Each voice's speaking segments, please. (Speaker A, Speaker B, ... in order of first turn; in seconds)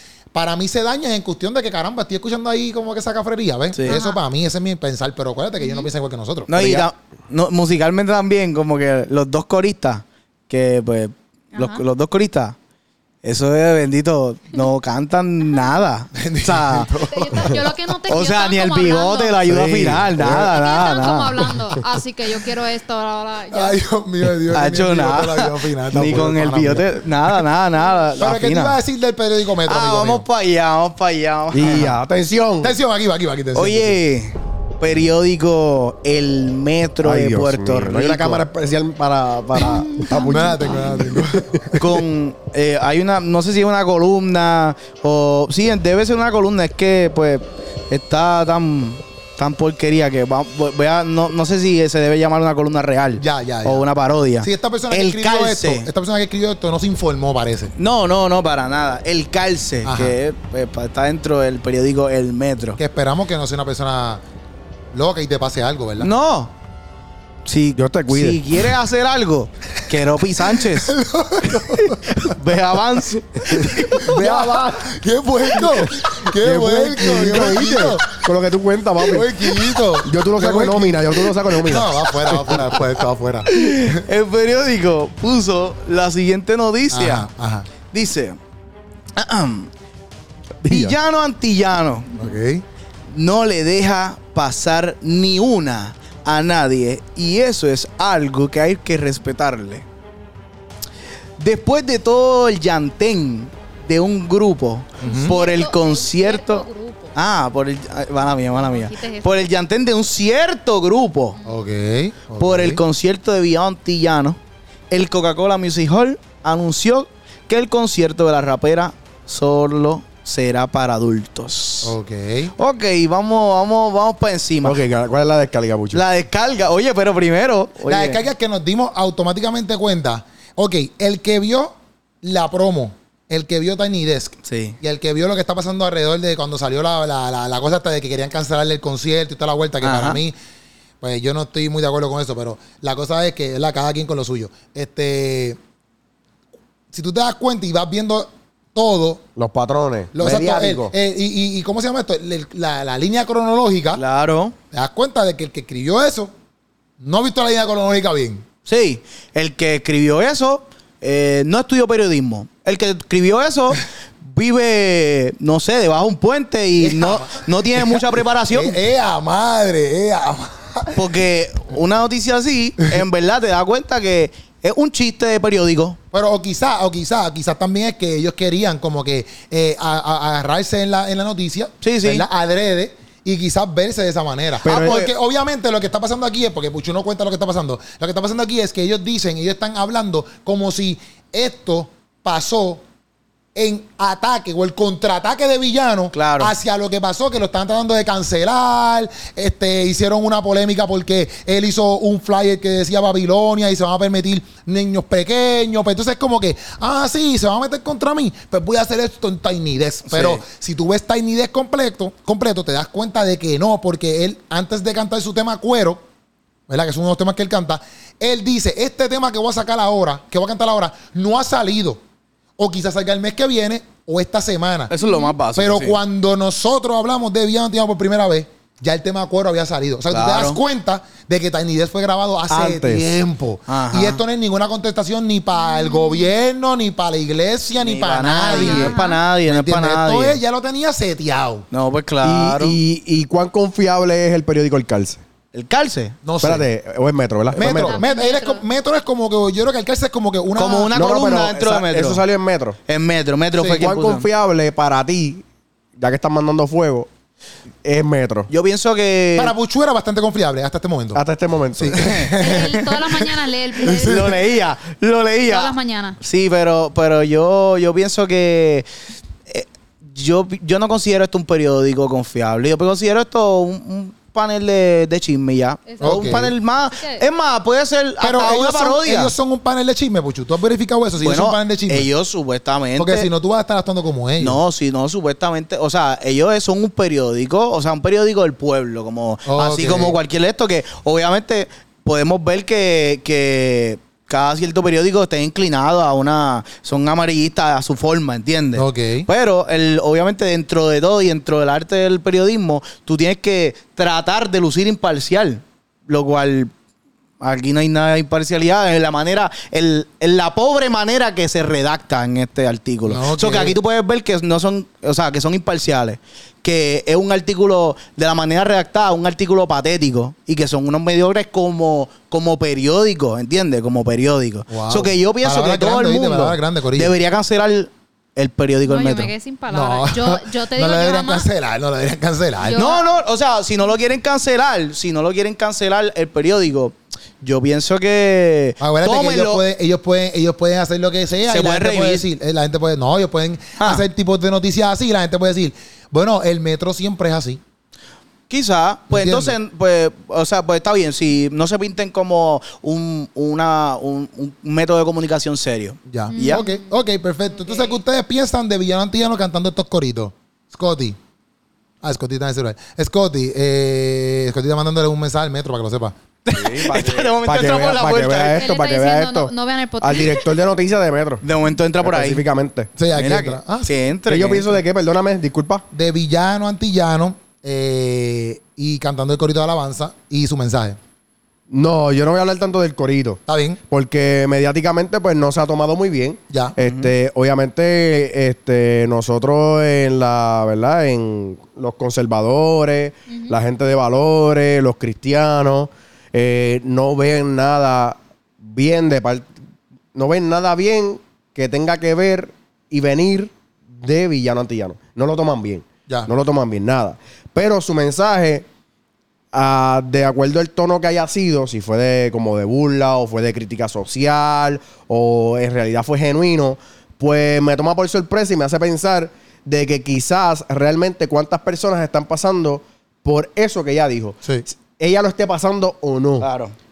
Speaker A: 0.3-6.9, 16.1-17.7, 23.5-27.4, 28.2-30.2, 32.6-34.0, 39.6-41.8, 53.2-53.9, 54.4-57.7, 59.8-60.2, 62.8-64.2, 64.9-66.1, 70.5-72.3, 73.7-78.3, 79.0-84.0, 86.9-87.7, 90.7-91.0, 92.2-92.6, 105.0-105.3, 111.5-112.8, 121.8-122.5, 127.9-140.3, 141.0-145.6, 146.9-149.2, 150.1-154.0, 154.7-156.3, 157.0-158.4, 166.8-171.0, 176.1-192.8, 193.6-216.0, 216.7-222.0, 222.6-224.9, 225.6-241.7, 246.2-246.7, 247.5-251.0, 253.6-253.9, 259.4-261.2, 261.8-262.7, 263.8-264.4, 276.0-276.5, 278.2-282.1, 283.0-284.6, 289.5-290.2, 298.8-299.3, 313.1-313.8, 324.7-327.1, 329.7-332.8, 338.8-347.6, 349.1-349.6, 356.1-361.2, 362.0-366.1, 373.0-373.9, 375.9-381.0, 383.5-383.8, 386.5-386.8
Speaker B: 3.7-4.0, 6.5-12.6, 13.2-16.9, 18.1-21.6, 24.5-28.8, 29.6-31.9, 33.5-38.4, 41.8-55.9, 57.8-62.8, 66.0-66.5, 67.4-70.9, 72.0-74.1, 82.4-82.8, 83.5-87.3, 87.9-88.4, 89.1-89.7, 90.6-92.2, 93.1-99.9, 101.4-111.4, 112.4-114.4, 114.9-121.9, 122.6-124.8, 125.9-128.2, 134.4-134.8, 139.8-140.2, 154.0-154.6, 158.6-168.8, 171.0-176.0, 181.8-182.2, 184.7-185.1, 196.1-196.5, 210.1-210.4, 224.9-226.0, 230.1-230.6, 233.7-234.2, 237.8-240.4, 241.7-242.8, 245.5-246.2, 250.6-252.2, 252.9-254.2, 258.5-259.5, 262.0-263.2, 263.8-268.9, 269.5-279.3, 281.2-283.3, 284.4-306.7, 307.4-329.3, 332.8-339.6, 341.5-342.2, 343.8-344.1, 348.5-356.6, 366.4-368.7, 371.4-372.4, 373.1-374.8, 386.8-387.1, 426.4-426.8
Speaker C: 3.9-4.2, 5.6-5.9, 11.5-11.8, 17.1-19.4, 20.4-23.8, 39.6-41.0, 105.0-107.2, 108.5-109.5, 225.0-225.3, 235.6-236.3, 238.5-239.2, 247.6-248.7, 262.4-264.4, 265.5-266.2, 275.9-277.2, 328.9-331.5, 332.6-333.1, 356.3-356.9, 357.5-358.0, 368.5-370.6, 393.3-393.6
Speaker D: 19.5-20.6, 31.5-32.7, 37.0-41.8, 67.8-68.4, 73.7-82.5, 124.6-126.0, 149.4-150.9, 184.6-185.1, 232.5-233.1, 242.2-245.2, 246.4-248.0, 250.9-252.8, 253.7-255.4, 256.0-257.1, 257.8-258.5, 261.1-262.2, 366.5-371.5, 372.0-372.9, 374.3-375.9, 381.7-399.5, 400.1-408.7, 409.5-426.5